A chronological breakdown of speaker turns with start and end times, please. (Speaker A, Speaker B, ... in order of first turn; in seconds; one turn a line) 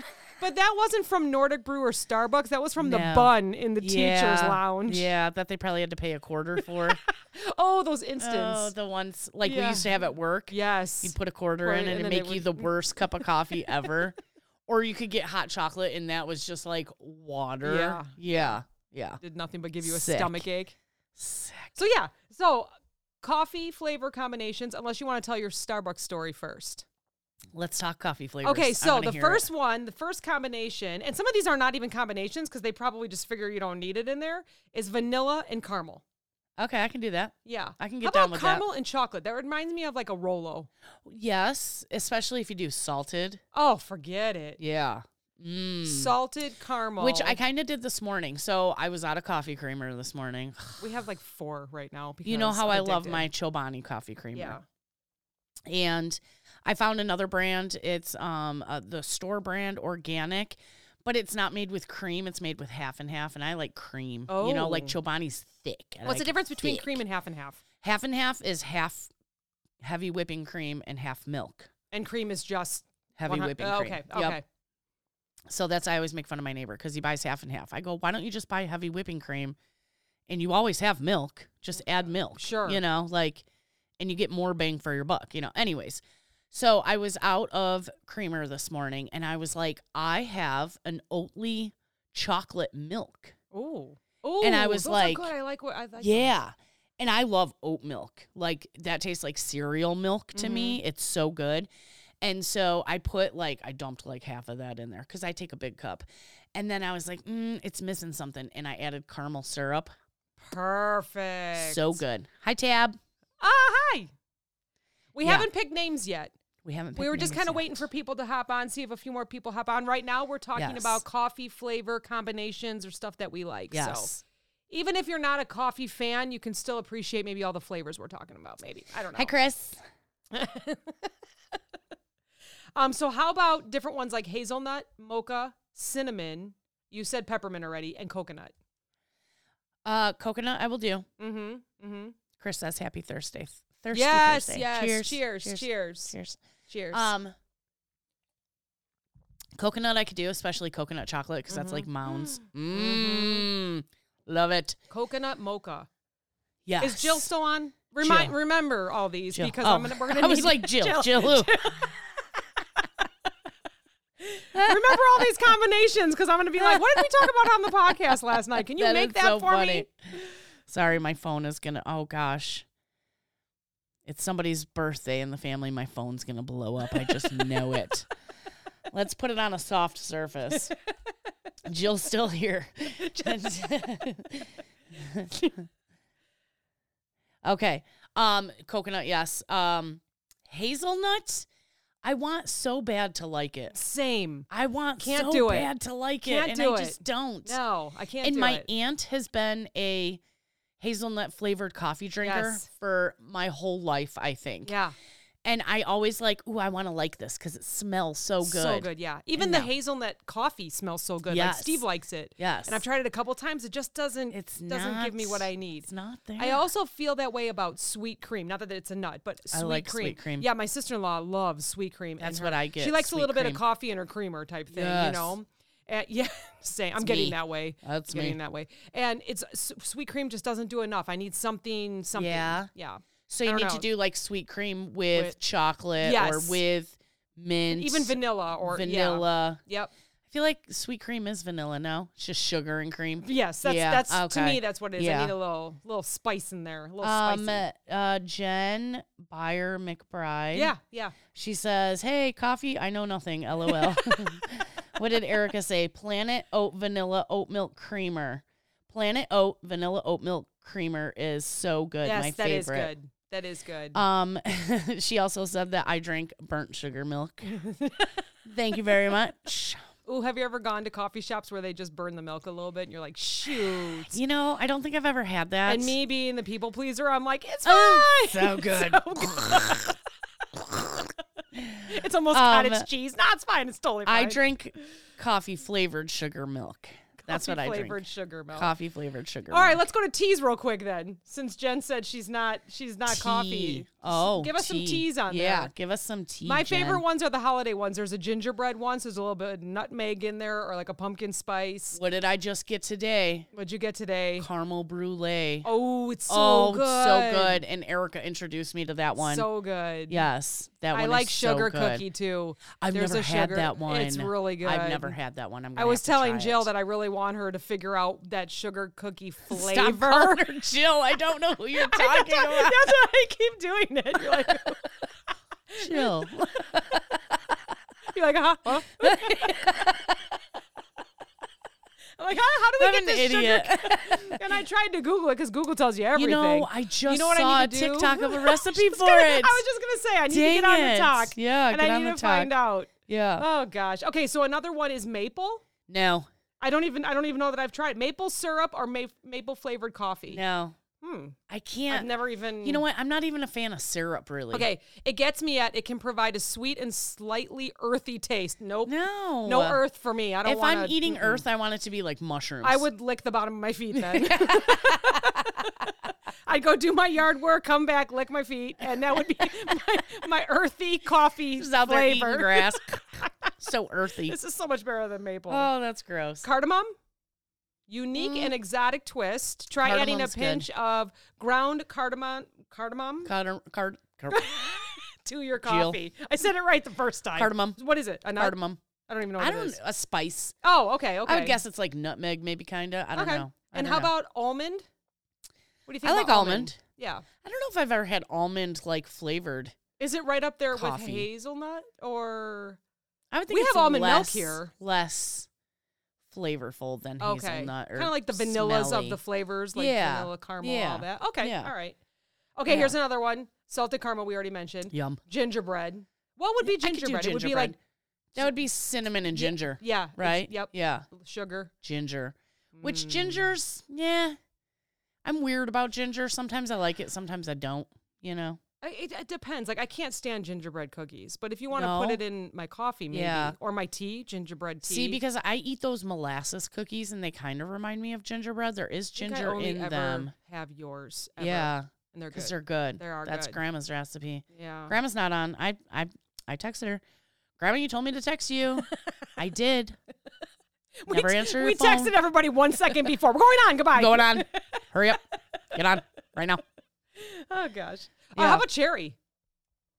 Speaker A: 0.4-5.1
Speaker B: 2.8-7.0
Speaker A: 6.9-8.7
Speaker B: 8.2-19.2
Speaker A: 9.4-9.9
Speaker A: 10.5-13.2
Speaker A: 17.6-18.5
Speaker A: 19.2-20.8
Speaker B: 19.8-20.5
Speaker B: 21.2-21.8
Speaker A: 21.8-22.7
Speaker A: 23.2-26.9
Speaker B: 27.5-29.4
Speaker A: 28.4-36.0
Speaker B: 36.6-38.6
Speaker A: 37.5-40.7
Speaker B: 41.0-43.4
Speaker A: 43.5-44.6
Speaker B: 44.6-46.1
Speaker A: 45.9-47.4
Speaker B: 47.0-50.8
Speaker A: 50.8-53.3
Speaker B: 52.2-54.6
Speaker A: 54.4-54.6
Speaker B: 55.7-67.0
Speaker A: 64.3-65.0
Speaker A: 66.0-67.6
Speaker B: 67.8-69.1
Speaker B: 69.8-71.7
Speaker A: 71.9-74.4
Speaker B: 73.2-74.4
Speaker B: 75.5-79.6
Speaker B: 80.3-83.5
Speaker A: 82.3-82.8
Speaker B: 84.0-93.3
Speaker A: 93.5-96.3
Speaker B: 94.4-95.3
Speaker B: 96.0-101.7
Speaker A: 100.3-100.8
Speaker B: 102.2-109.9
Speaker A: 110.4-112.0
Speaker B: 111.6-113.0
Speaker A: 113.4-114.1
Speaker A: 115.1-116.3
Speaker B: 115.2-115.5
Speaker B: 116.6-117.8
Speaker A: 117.0-124.1
Speaker B: 120.6-121.0
Speaker B: 123.7-124.2
Speaker A: 124.7-129.3
Speaker B: 129.2-129.8
Speaker A: 130.3-131.1
Speaker A: 132.8-138.5
Speaker B: 139.8-141.1
Speaker A: 141.2-142.2
Speaker B: 142.4-146.4
Speaker A: 143.9-146.2
Speaker A: 146.7-147.1
Speaker B: 146.9-147.3
Speaker B: 149.6-154.8
Speaker A: 151.5-153.5
Speaker A: 154.9-155.9
Speaker B: 156.7-157.3
Speaker A: 156.8-162.1
Speaker B: 158.0-158.4
Speaker B: 159.3-161.5
Speaker A: 164.2-169.9
Speaker B: 164.6-165.0
Speaker B: 166.7-167.3
Speaker B: 168.8-169.9
Speaker B: 170.7-172.7
Speaker B: 174.1-178.1
Speaker A: 176.9-177.6
Speaker B: 178.9-180.7
Speaker B: 181.7-185.5
Speaker A: 183.0-183.9
Speaker B: 187.4-191.5
Speaker B: 192.0-193.8
Speaker A: 193.7-194.5
Speaker B: 194.5-197.6
Speaker A: 195.0-195.7
Speaker A: 196.2-198.7
Speaker B: 198.2-200.2
Speaker B: 200.8-204.8
Speaker A: 202.2-202.7
Speaker A: 204.7-204.9
Speaker B: 205.4-209.7
Speaker A: 208.4-233.9
Speaker B: 211.3-211.8
Speaker B: 212.4-212.8
Speaker B: 214.3-216.6
Speaker B: 219.5-220.5
Speaker B: 222.2-223.6
Speaker B: 224.7-225.4
Speaker B: 227.0-228.4
Speaker B: 232.2-232.7
Speaker B: 233.3-239.6
Speaker A: 236.0-236.6
Speaker A: 237.7-239.9
Speaker B: 240.3-245.3
Speaker A: 243.2-247.7
Speaker B: 247.0-250.7
Speaker A: 250.5-251.2
Speaker B: 251.3-262.9
Speaker A: 253.7-254.4
Speaker A: 262.0-264.0
Speaker B: 263.9-267.5
Speaker A: 267.5-268.1
Speaker B: 268.4-269.8
Speaker A: 270.1-274.2
Speaker B: 273.4-275.9
Speaker A: 275.6-280.0
Speaker B: 277.7-279.9
Speaker B: 281.6-282.9
Speaker A: 281.8-284.4
Speaker B: 284.1-288.0
Speaker A: 287.2-288.7
Speaker B: 288.5-289.8
Speaker A: 289.5-295.7
Speaker B: 293.1-297.0
Speaker A: 296.4-302.0
Speaker B: 301.9-303.5
Speaker A: 303.5-304.5
Speaker B: 304.4-305.7
Speaker A: 305.6-307.6
Speaker B: 306.3-309.5
Speaker A: 309.2-310.2
Speaker B: 310.1-312.1
Speaker A: 310.9-315.2
Speaker B: 312.8-316.7
Speaker A: 315.8-320.4
Speaker B: 319.5-322.9
Speaker A: 321.8-324.9
Speaker A: 325.7-327.0
Speaker B: 325.8-327.2
Speaker A: 328.1-329.9
Speaker B: 329.0-330.1
Speaker A: 332.2-345.6
Speaker B: 332.8-334.4
Speaker B: 336.2-339.6
Speaker B: 340.3-342.5
Speaker B: 343.1-343.5
Speaker B: 345.9-346.3
Speaker A: 346.6-350.4
Speaker B: 350.3-350.8
Speaker A: 351.0-351.4
Speaker B: 351.5-352.1
Speaker A: 351.9-352.9
Speaker B: 352.6-354.7
Speaker A: 354.5-358.9
Speaker B: 358.9-359.8
Speaker A: 359.4-361.4
Speaker B: 360.4-362.9
Speaker A: 362.6-373.6
Speaker B: 363.9-365.5
Speaker B: 371.6-373.1
Speaker B: 373.6-374.4
Speaker A: 374.2-375.7
Speaker B: 375.5-376.4
Speaker A: 376.4-376.9
Speaker A: 377.9-383.3
Speaker B: 378.1-378.5
Speaker B: 379.8-380.7
Speaker B: 383.2-384.5
Speaker A: 384.3-388.6
Speaker B: 385.6-386.0
Speaker B: 387.4-387.8
Speaker B: 388.4-388.8
Speaker A: 389.1-389.8
Speaker B: 389.4-390.6
Speaker A: 390.6-391.6
Speaker B: 391.3-394.1
Speaker A: 393.1-394.9
Speaker A: 395.9-397.3
Speaker B: 396.0-396.8
Speaker B: 397.4-399.8
Speaker A: 400.0-402.8
Speaker B: 400.7-401.3
Speaker B: 403.3-405.5
Speaker A: 403.5-404.7
Speaker B: 406.3-409.2
Speaker A: 407.2-412.0
Speaker B: 409.8-411.7
Speaker A: 412.6-417.8
Speaker B: 412.7-412.9
Speaker B: 414.9-415.2
Speaker B: 416.6-417.8
Speaker B: 418.3-421.1
Speaker A: 419.3-421.7
Speaker B: 421.8-424.4
Speaker A: 422.8-423.5
Speaker B: 425.2-428.6
Speaker A: 428.8-435.2
Speaker B: 431.7-432.2
Speaker B: 433.1-433.6
Speaker B: 434.9-440.3
Speaker A: 439.1-443.6
Speaker B: 441.4-447.0
Speaker A: 444.5-444.9
Speaker B: 447.6-450.0
Speaker A: 448.9-449.3
Speaker A: 451.0-454.8
Speaker B: 451.1-452.1
Speaker B: 453.9-455.2
Speaker B: 455.7-456.6
Speaker A: 457.2-459.2
Speaker B: 458.4-458.6